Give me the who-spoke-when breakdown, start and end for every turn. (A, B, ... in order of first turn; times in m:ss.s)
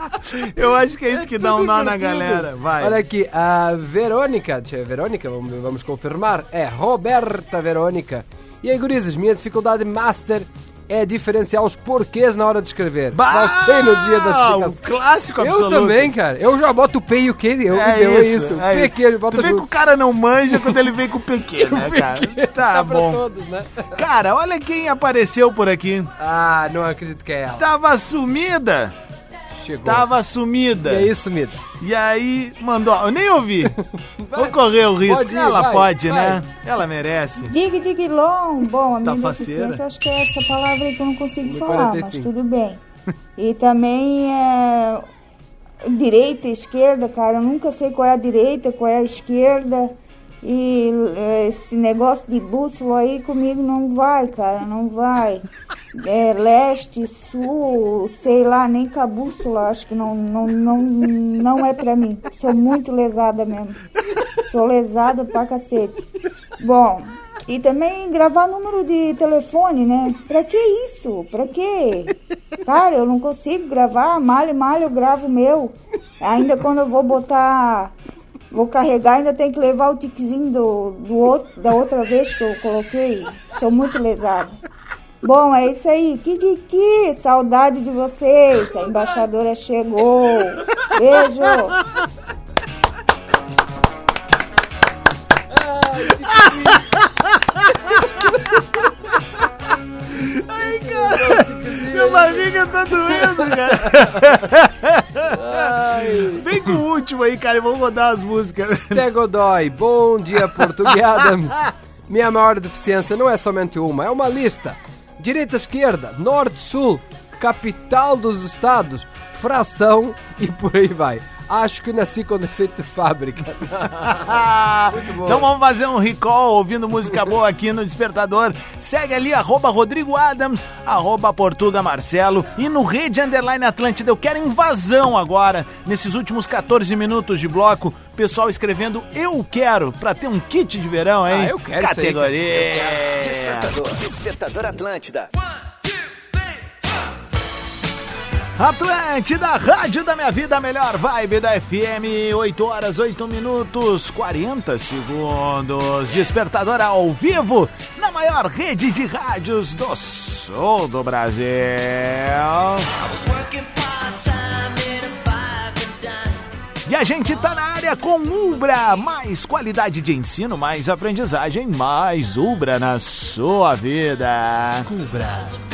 0:00.1-0:03.0 A
0:01.1-0:14.8 B
0:13.1-0:16.1 A
0:15.4-0:19.7 B
0:17.7-0:23.2 A
0:20.5-0:20.9 B
0:21.6-0:24.0 B
0:23.9-0:26.1 A
0:26.2-0:27.6 B
0:27.6-0:28.9 A
0:29.5-0:30.1 B
0:29.8-0:31.1 A
0:30.8-0:31.6 B
0:31.8-0:33.8 A
0:33.8-0:36.4 B
0:34.3-0:37.5 A
0:37.5-0:42.8 C
0:39.0-0:39.8 A
0:41.4-0:42.3 B
0:43.4-0:45.0 C
0:45.8-1:03.8 C
1:04.3-1:17.9 C
1:18.5-1:24.6 C
1:25.2-1:31.8 C
1:35.5-1:36.9 B
1:36.3-1:37.4 A
1:37.8-1:38.6 B
1:40.1-1:49.1 A
1:40.6-1:42.5 B
1:43.0-1:44.3 B
1:45.2-1:46.5 B
1:48.7-2:04.4 B
1:50.4-1:51.2 A
2:04.0-2:23.7 A
2:04.9-2:05.5 B
2:21.3-2:22.8 B
2:23.0-2:25.3 D
2:28.6-2:42.9 A
2:43.0-2:46.0 D
2:46.8-2:54.9 A
2:54.7-2:55.6 B